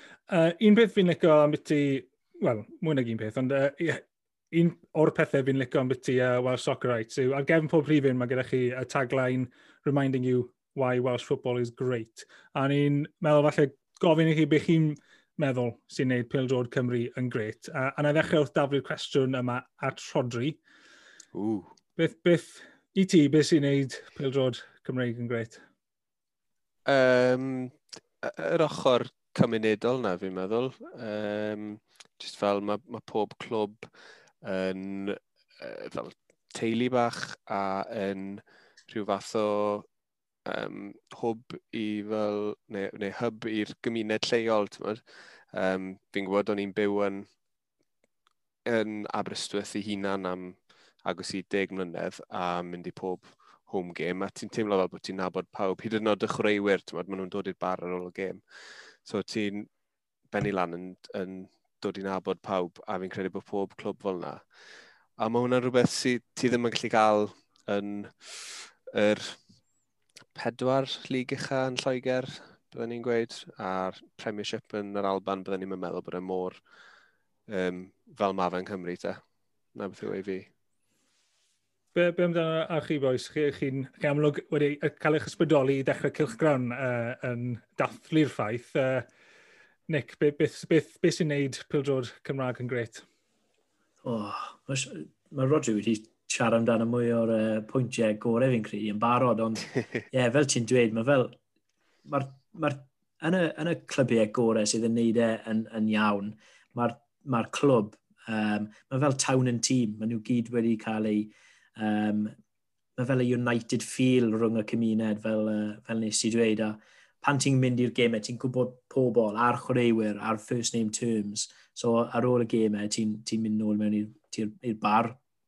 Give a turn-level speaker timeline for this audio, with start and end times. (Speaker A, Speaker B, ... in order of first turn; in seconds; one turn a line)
Speaker A: 0.3-20.6
Speaker B: 21.3-21.7
Speaker A: 22.0-25.6
Speaker B: 26.9-33.9
Speaker B: 34.4-39.9
Speaker B: 40.5-47.3
Speaker B: 48.7-59.7
Speaker B: 60.3-64.5
Speaker B: 65.2-69.4
Speaker B: 70.3-76.6
Speaker B: 77.5-79.2
Speaker B: 79.7-80.5
Speaker A: 82.0-89.1
Speaker A: 89.9-93.0
Speaker C: 94.0-101.4
Speaker C: 102.1-112.3
Speaker C: 113.0-125.2